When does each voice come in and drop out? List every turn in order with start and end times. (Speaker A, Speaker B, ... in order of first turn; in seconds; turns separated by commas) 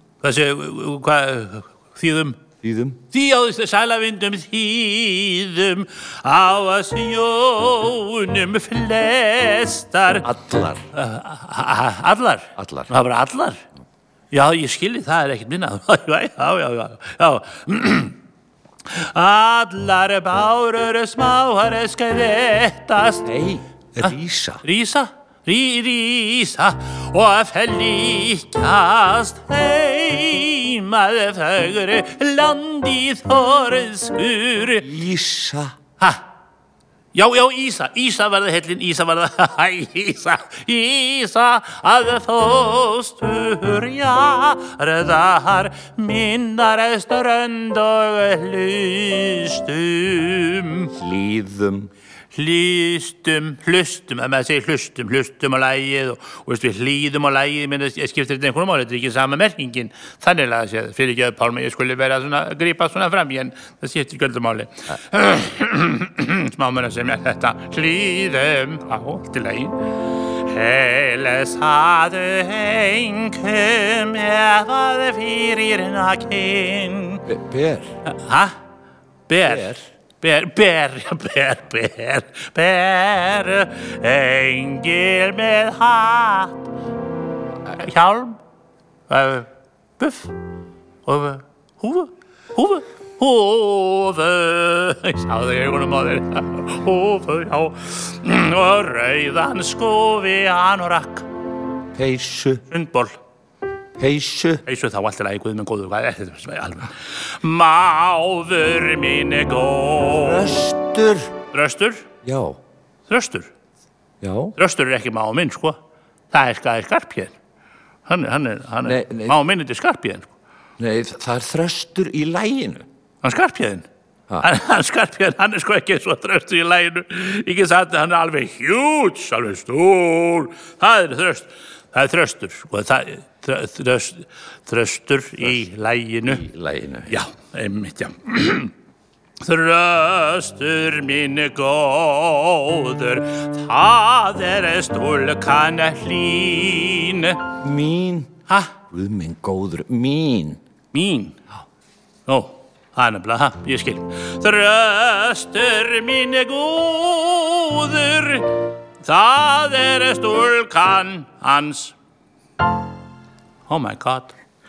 Speaker A: 0.2-2.4, Speaker B: 2.6-3.0, Speaker A: 3.1-10.3, Speaker B: 10.2-10.8, Speaker A: 10.9-13.6, Speaker B: 12.6-12.9, Speaker A: 14.3-18.2, Speaker A: 18.9-23.3, Speaker B: 23.2-24.6, Speaker A: 24.6-34.9, Speaker B: 34.8-35.8, Speaker A: 37.1-50.9, Speaker B: 51.0-51.9, Speaker A: 52.3-77.2, Speaker B: 77.3-77.9, Speaker A: 78.2-78.5, Speaker A: 79.3-86.6, Speaker B: 79.4-79.8, Speaker A: 87.7-88.4, Speaker A: 89.1-89.5, Speaker A: 90.0-90.3, Speaker A: 91.1-101.3, Speaker B: 102.0-102.6, Speaker A: 102.7-103.2, Speaker B: 104.0-104.6, Speaker A: 104.7-110.7, Speaker B: 110.2-111.3, Speaker A: 111.5-112.1, Speaker B: 112.2-112.6, Speaker A: 113.1-113.5, Speaker B: 114.2-114.5, Speaker A: 114.6-115.8, Speaker A: 116.3-117.3, Speaker A: 118.1-120.3, Speaker B: 118.8-119.4, Speaker B: 120.8-122.9, Speaker A: 123.2-123.9, Speaker A: 124.4-136.4, Speaker B: 136.3-137.2, Speaker A: 137.1-138.7, Speaker A: 139.4-147.4, Speaker B: 147.6-148.3, Speaker B: 148.9-150.6, Speaker A: 150.9-151.4, Speaker A: 152.3-161.9, Speaker A: 163.7-164.3